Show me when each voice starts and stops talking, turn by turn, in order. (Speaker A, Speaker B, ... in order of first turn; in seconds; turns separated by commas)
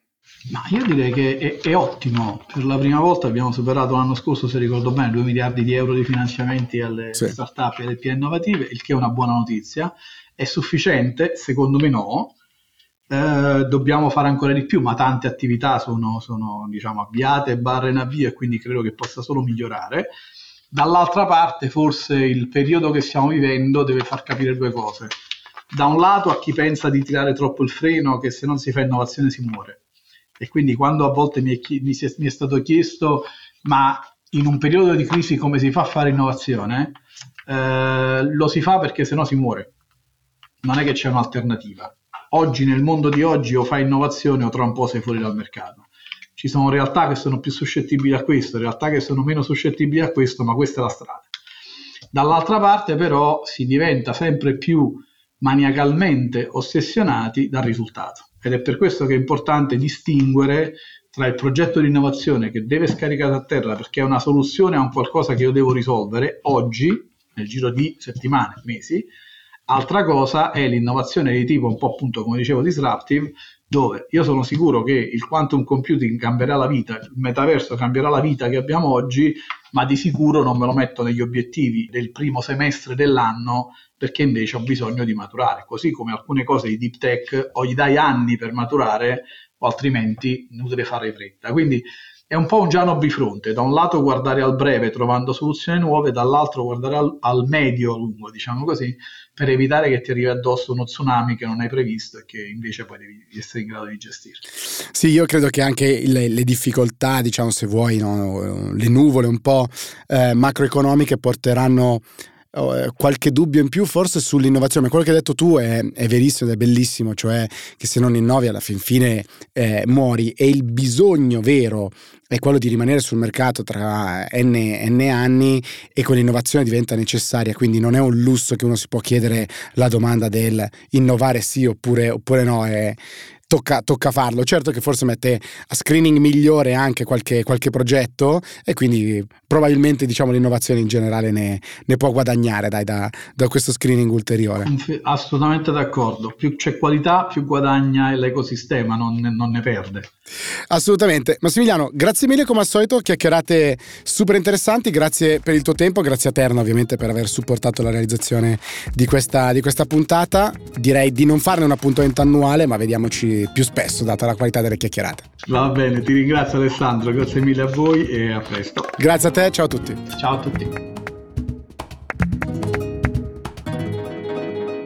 Speaker A: 0.5-12.3, Speaker A: 13.1-20.1, Speaker A: 20.7-25.1, Speaker A: 25.7-29.8, Speaker A: 30.4-39.7, Speaker A: 40.6-45.9, Speaker A: 46.4-51.3, Speaker A: 52.1-69.1, Speaker A: 69.7-104.4, Speaker B: 104.9-144.7, Speaker A: 144.6-150.1, Speaker B: 150.7-165.2, Speaker A: 165.5-168.9, Speaker B: 169.0-170.0, Speaker A: 170.2-170.7